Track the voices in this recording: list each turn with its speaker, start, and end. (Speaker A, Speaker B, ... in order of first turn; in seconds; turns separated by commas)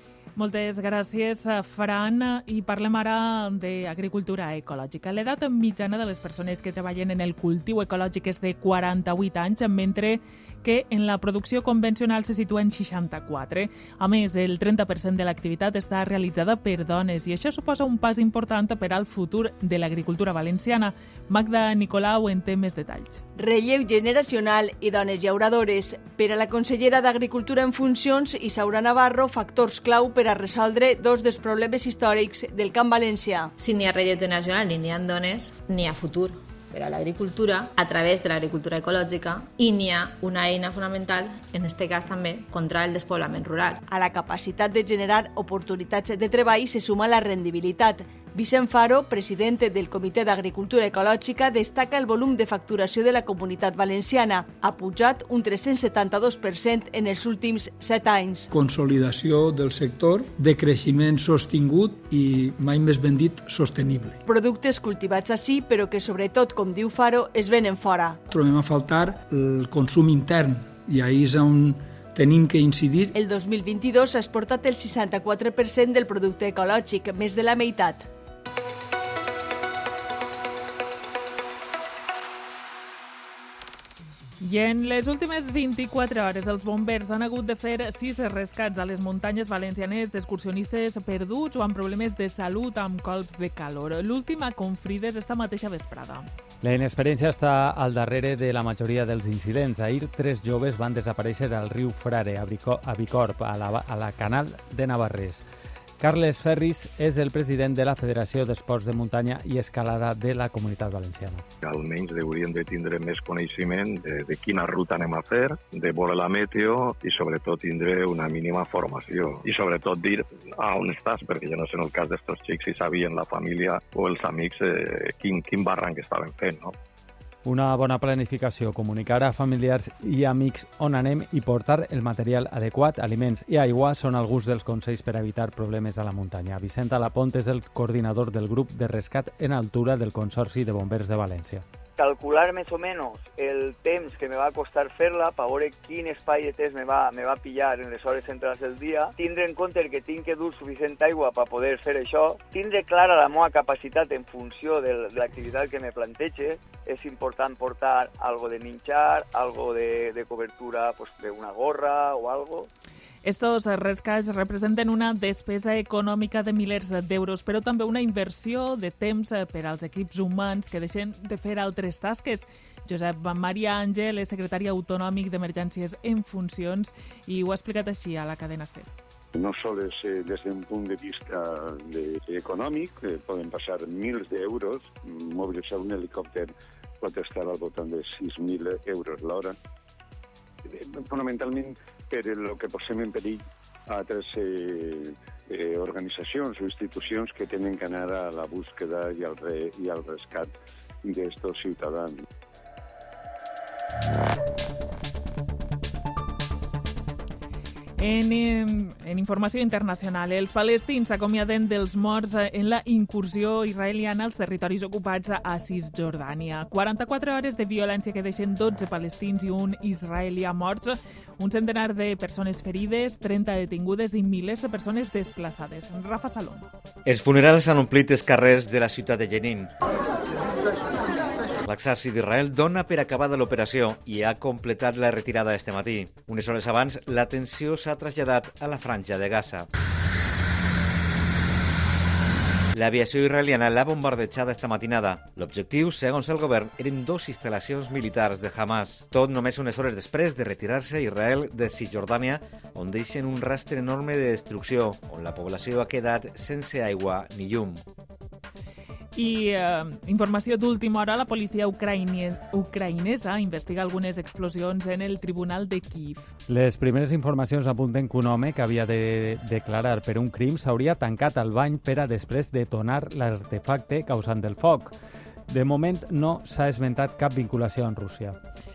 Speaker A: 0.4-23.2, Speaker B: 23.4-33.5, Speaker C: 33.6-43.8, Speaker B: 43.9-58.5, Speaker D: 58.5-64.2, Speaker B: 64.2-68.2, Speaker D: 68.3-73.1, Speaker B: 73.1-78.1, Speaker A: 84.4-96.3, Speaker E: 96.6-105.5, Speaker E: 106.0-111.4, Speaker F: 111.6-126.7, Speaker E: 127.4-141.6, Speaker G: 142.0-162.7, Speaker A: 163.2-178.9, Speaker H: 179.3-189.6, Speaker H: 190.7-200.5, Speaker H: 201.0-202.2, Speaker A: 208.0-226.7, Speaker I: 227.1-229.7, Speaker I: 231.6-239.7, Speaker I: 242.7-257.8, Speaker A: 259.1-266.3, Speaker E: 266.5-274.9, Speaker E: 275.5-278.4